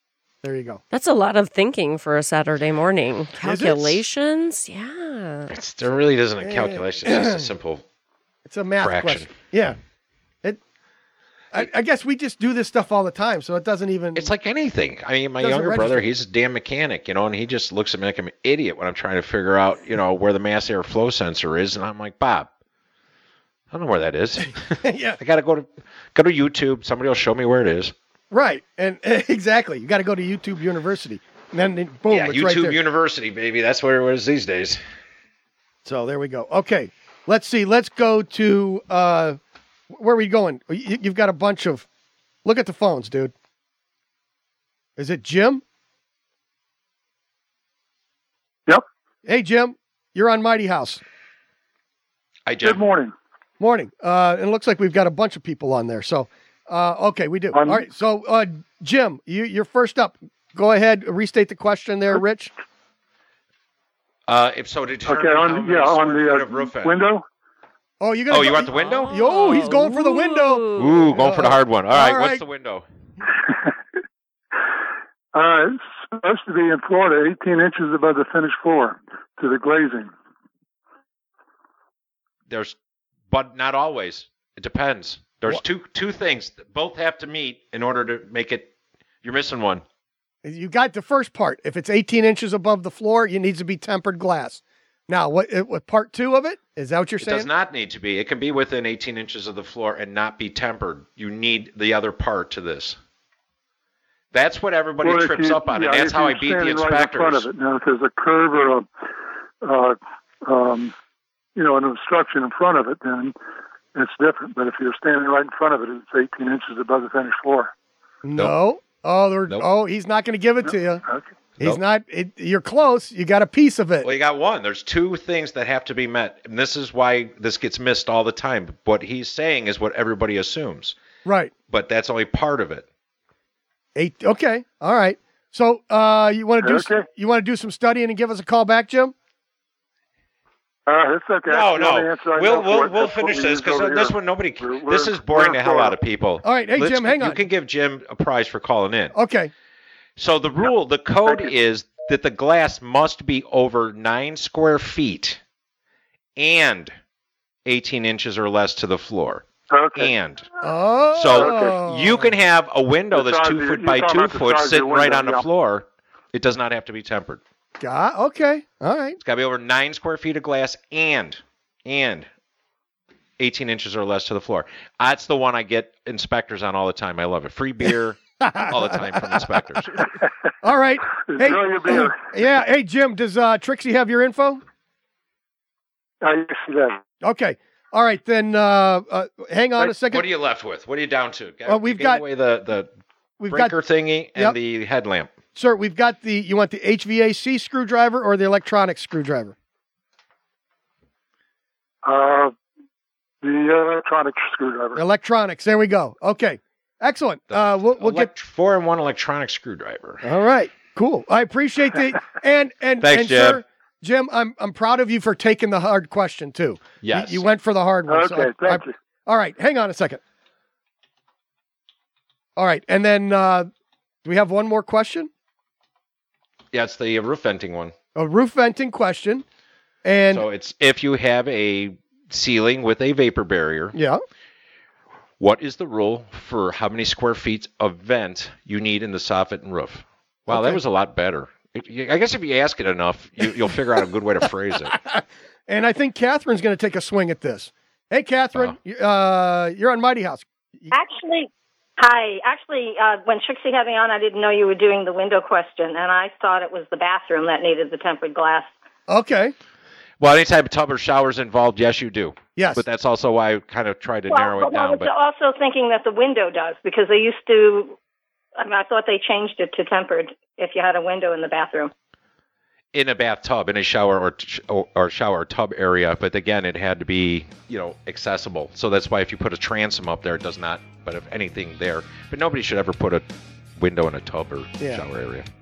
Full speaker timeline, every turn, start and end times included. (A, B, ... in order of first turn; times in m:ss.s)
0:00.4-0:00.8 A
0:00.9-0:05.5 B
0:03.4-0:04.0 A
0:05.5-0:07.8 C
0:06.4-0:07.5 A
0:08.5-0:09.8 A
0:08.8-0:09.3 C
0:11.5-0:14.3 A
0:14.2-0:22.5 C
0:15.4-0:16.0 A
0:23.7-0:27.9 C
0:24.8-0:25.2 A
0:28.3-0:32.8 A
0:32.1-0:34.8 C
0:35.8-0:39.4 A
0:39.9-0:41.9 A
0:42.4-0:43.3 A
0:45.0-0:45.6 A
0:49.2-0:51.0 A
0:52.5-0:52.8 C
0:52.6-0:53.1 D
0:53.6-1:02.5 A
0:57.5-0:57.8 D
1:04.3-1:07.0 C
1:05.1-1:07.2 D
1:08.0-1:12.4 A
1:08.3-1:09.1 C
1:08.8-1:11.0 B
1:10.8-1:12.8 C
1:15.3-1:20.1 D
1:22.5-1:22.8 C
1:23.3-1:28.7 C
1:29.2-1:29.8 C
1:30.4-1:37.5 A
1:37.2-1:43.0 C
1:44.3-1:47.5 C
1:45.0-1:48.9 D
1:49.6-1:50.9 D
1:51.6-1:53.4 D
1:54.0-1:57.7 D
1:58.2-2:01.0 A
2:01.6-2:04.1 A
2:04.0-2:11.0 C
2:11.2-2:11.5 A
2:11.7-2:12.8 C
2:14.0-2:19.1 A
2:16.6-2:17.1 D
2:20.9-2:26.0 D
2:21.5-2:29.2 C
2:26.4-2:27.4 A
2:29.1-2:29.5 A
2:30.2-2:35.4 C
2:31.3-2:31.5 D
2:36.4-2:36.9 C
2:37.7-2:40.5 C
2:39.7-2:40.1 D
2:40.6-2:42.4 A
2:41.1-2:47.4 C
2:43.1-2:45.4 D
2:47.8-2:49.2 A
2:49.2-2:52.3 C
2:53.4-3:00.1 C
2:58.4-2:59.5 A
3:00.6-3:04.6 A
3:01.3-3:02.3 D
3:06.2-3:07.0 D
3:07.2-3:10.3 A
3:10.0-3:12.9 C
3:11.7-3:12.2 A
3:13.4-3:13.8 A
3:13.5-3:15.3 C
3:15.6-3:19.6 A
3:22.0-3:22.5 D
3:23.4-3:25.0 D
3:25.0-3:28.3 A
3:27.5-3:30.2 C
3:30.2-3:40.2 A
3:33.0-3:33.6 C
3:37.0-3:37.4 C
3:38.1-3:39.0 D
3:42.6-3:43.7 A
3:44.2-3:45.3 A
3:46.7-3:47.9 C
3:48.2-3:49.4 A
3:50.0-3:50.5 A
3:50.3-3:54.0 C
3:53.9-3:54.2 A
3:55.4-4:05.0 C
4:00.5-4:00.8 A
4:05.1-4:10.9 A
4:10.9-4:18.7 E
4:19.1-4:19.5 A
4:20.2-4:25.1 C
4:22.6-4:22.8 A
4:24.3-4:28.0 E
4:28.6-4:31.9 E
4:32.9-4:43.2 C
4:43.8-4:45.4 C